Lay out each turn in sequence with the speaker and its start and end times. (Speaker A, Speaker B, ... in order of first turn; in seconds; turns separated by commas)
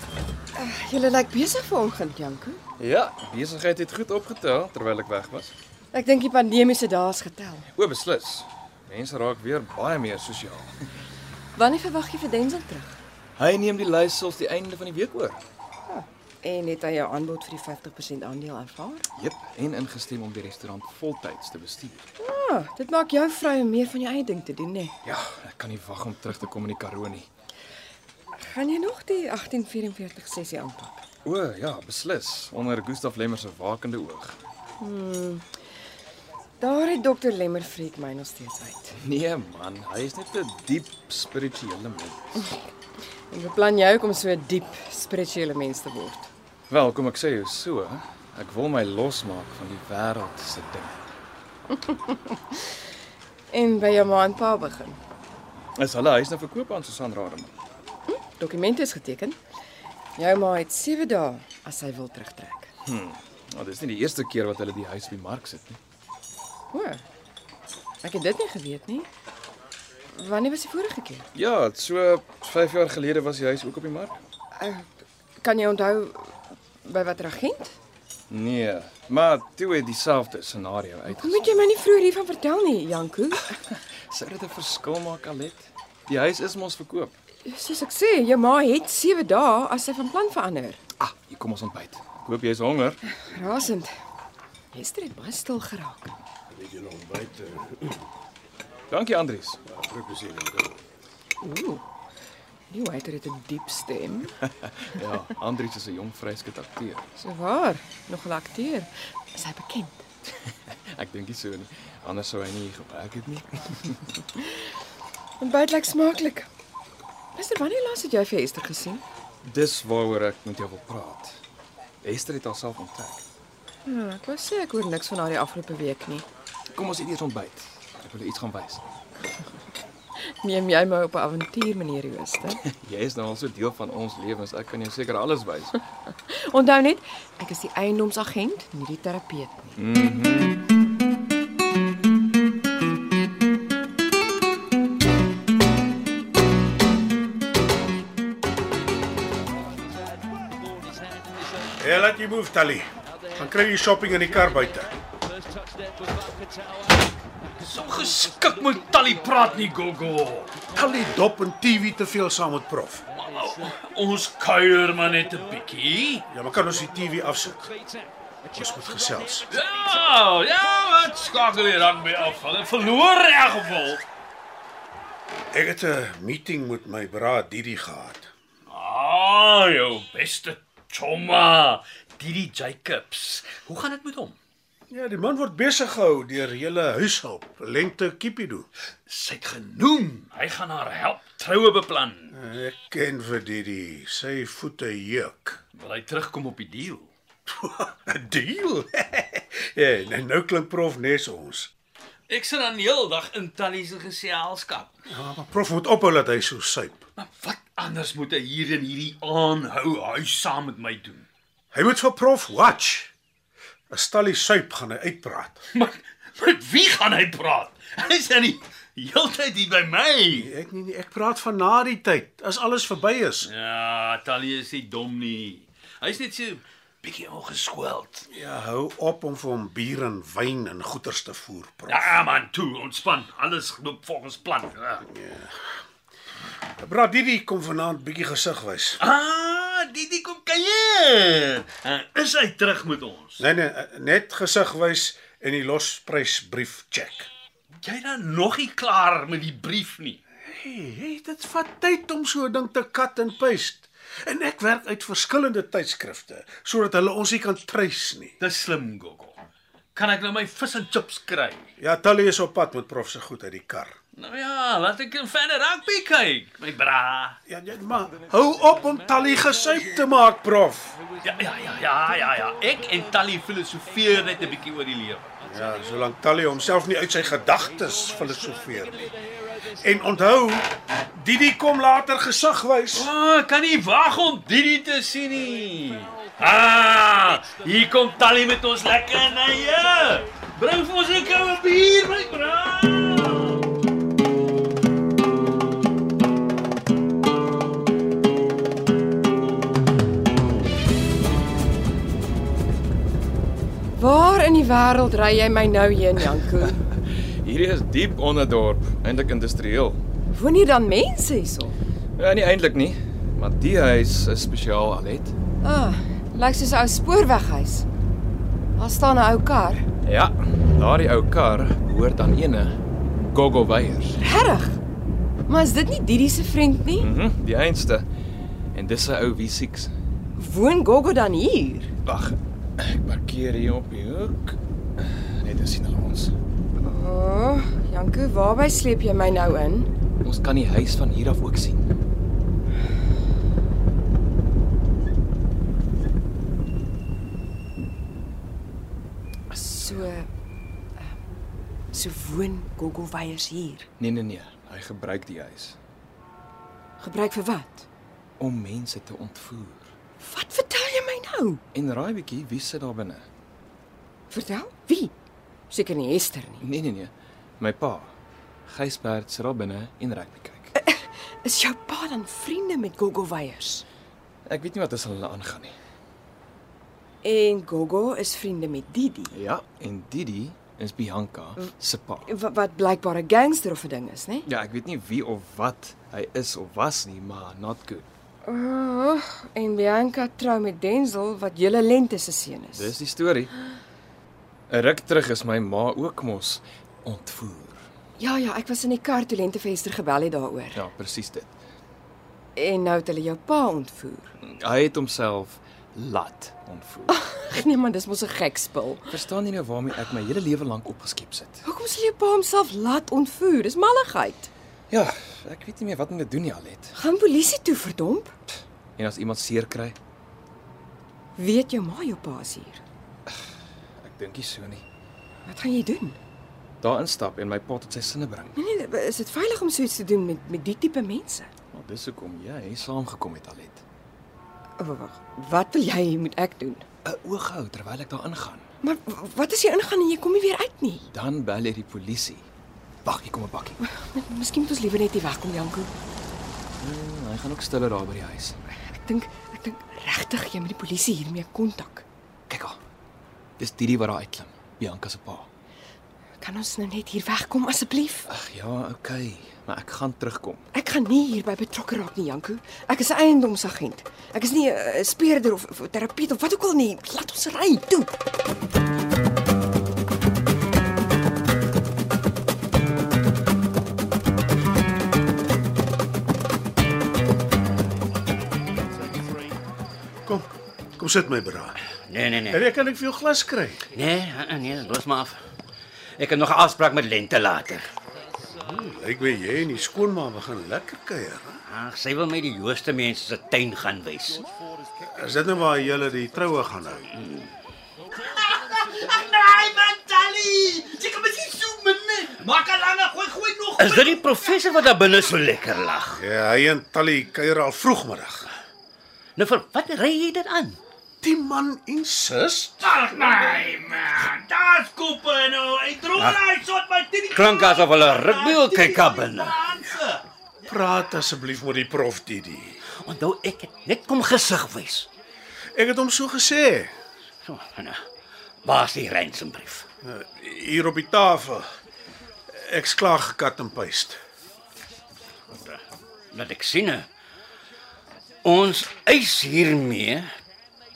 Speaker A: 0.6-2.6, Speaker B: 2.8-5.5, Speaker A: 5.9-7.7, Speaker B: 7.8-10.7, Speaker A: 11.6-13.0, Speaker B: 13.4-15.4, Speaker A: 15.9-19.1, Speaker B: 19.2-22.0, Speaker A: 22.2-24.9, Speaker B: 25.0-27.3, Speaker A: 28.4-31.0, Speaker B: 31.2-34.4, Speaker A: 34.8-35.5, Speaker A: 36.6-39.0, Speaker B: 39.0-42.4, Speaker A: 43.3-46.3, Speaker B: 46.7-51.0, Speaker A: 51.8-52.6, Speaker A: 53.5-55.0, Speaker B: 55.8-57.5, Speaker A: 58.1-59.4, Speaker A: 60.2-62.7, Speaker B: 62.9-65.8, Speaker A: 66.7-67.0, Speaker A: 68.0-69.1, Speaker A: 70.2-71.3, Speaker B: 71.3-74.2, Speaker A: 74.5-74.9, Speaker A: 75.4-77.8, Speaker B: 78.3-81.6, Speaker A: 81.1-83.5, Speaker B: 83.7-87.1, Speaker A: 87.5-90.8, Speaker B: 91.0-93.0, Speaker A: 93.1-93.9, Speaker A: 94.7-96.2, Speaker C: 96.5-97.9, Speaker B: 98.9-99.6, Speaker C: 99.7-100.8, Speaker A: 101.4-101.8, Speaker A: 102.7-104.3, Speaker B: 104.6-107.0, Speaker A: 107.2-110.0, Speaker B: 110.9-114.2, Speaker A: 115.4-116.5, Speaker A: 117.3-119.0, Speaker B: 119.4-121.4, Speaker B: 122.0-123.2, Speaker A: 123.8-126.3, Speaker B: 126.7-128.8, Speaker A: 130.2-132.6, Speaker B: 132.7-135.8, Speaker A: 136.3-139.7, Speaker B: 139.8-140.6, Speaker C: 151.8-154.9, Speaker D: 157.6-160.6, Speaker C: 160.7-163.1, Speaker D: 163.2-166.2, Speaker C: 166.3-167.7, Speaker C: 168.5-169.5, Speaker D: 169.5-174.0, Speaker C: 175.5-178.3, Speaker D: 178.7-184.4, Speaker C: 184.9-188.7, Speaker D: 189.1-192.3, Speaker C: 192.3-195.6, Speaker D: 195.8-197.1, Speaker C: 197.5-201.7, Speaker D: 202.3-204.9, Speaker C: 205.1-207.0, Speaker D: 207.2-211.3, Speaker C: 211.7-213.1, Speaker C: 213.9-215.6, Speaker D: 215.8-220.5, Speaker C: 220.3-223.5, Speaker D: 223.4-228.2, Speaker C: 228.3-232.2, Speaker D: 231.9-235.0, Speaker C: 235.0-235.6, Speaker C: 236.8-239.0, Speaker D: 239.0-243.4, Speaker C: 243.4-247.3, Speaker D: 247.8-250.2, Speaker C: 250.5-258.4, Speaker D: 258.4-259.4, Speaker D: 259.9-261.6, Speaker C: 261.8-264.0, Speaker D: 264.2-267.4, Speaker C: 267.5-271.0, Speaker D: 271.2-275.3, Speaker C: 275.4-279.1, Speaker C: 279.8-283.1, Speaker D: 283.0-293.6, Speaker A: 303.9-306.8, Speaker B: 307.3-310.0, Speaker A: 310.3-311.8, Speaker B: 312.2-315.4, Speaker A: 315.6-317.9, Speaker A: 318.8-319.9, Speaker B: 320.0-324.2, Speaker A: 324.2-324.8, Speaker A: 325.5-327.1, Speaker B: 327.0-328.1, Speaker B: 328.7-329.9, Speaker A: 330.4-331.9, Speaker B: 332.1-336.3, Speaker A: 336.8-339.9, Speaker B: 340.2-341.9, Speaker A: 349.5-350.3, Speaker A: 351.9-353.9, Speaker B: 354.0-355.8, Speaker A: 357.0-357.9, Speaker B: 358.4-359.9, Speaker A: 360.2-361.6, Speaker B: 361.7-363.3, Speaker A: 364.3-365.1, Speaker A: 365.7-366.6, Speaker B: 366.6-368.1, Speaker B: 368.7-370.7, Speaker A: 370.8-373.9, Speaker B: 374.5-375.8, Speaker A: 377.2-379.4, Speaker B: 379.3-382.3, Speaker A: 382.3-384.5, Speaker B: 384.5-388.1, Speaker A: 388.4-392.9, Speaker B: 392.8-393.5, Speaker B: 394.7-397.8, Speaker A: 398.2-400.8, Speaker B: 400.8-401.5, Speaker A: 402.6-404.3, Speaker B: 404.4-407.2, Speaker A: 407.1-409.1, Speaker B: 409.1-411.6, Speaker A: 411.6-414.5, Speaker B: 414.9-416.9, Speaker A: 416.9-418.3, Speaker B: 419.0-420.0, Speaker A: 421.4-422.8, Speaker B: 424.0-424.8, Speaker A: 425.4-426.2, Speaker B: 426.8-428.6, Speaker A: 428.6-431.5, Speaker B: 431.7-433.8, Speaker A: 434.8-436.9, Speaker B: 437.1-438.6, Speaker A: 438.8-441.1, Speaker B: 441.1-442.4, Speaker B: 443.1-443.8, Speaker A: 443.8-445.9, Speaker B: 446.8-448.6, Speaker A: 448.9-452.1, Speaker B: 452.5-452.8, Speaker B: 453.6-455.5, Speaker A: 456.4-458.3, Speaker B: 458.3-460.6, Speaker A: 460.7-468.1, Speaker C: 480.3-481.8, Speaker E: 481.9-482.6, Speaker C: 482.5-483.9, Speaker E: 483.9-485.4, Speaker E: 486.2-487.9, Speaker C: 488.5-491.6, Speaker E: 491.7-494.5, Speaker C: 495.0-497.1, Speaker D: 498.3-504.2, Speaker E: 499.0-499.5, Speaker E: 503.8-506.2, Speaker C: 506.1-508.5, Speaker E: 509.4-510.8, Speaker C: 511.2-513.0, Speaker D: 512.9-520.2, Speaker E: 516.1-516.5, Speaker E: 517.3-519.8, Speaker C: 520.7-522.8, Speaker E: 522.9-525.1, Speaker C: 525.8-526.9, Speaker E: 527.4-528.0, Speaker E: 528.6-529.9, Speaker C: 530.0-531.7, Speaker C: 532.5-534.2, Speaker E: 535.5-535.8, Speaker E: 536.3-537.1, Speaker E: 538.4-540.3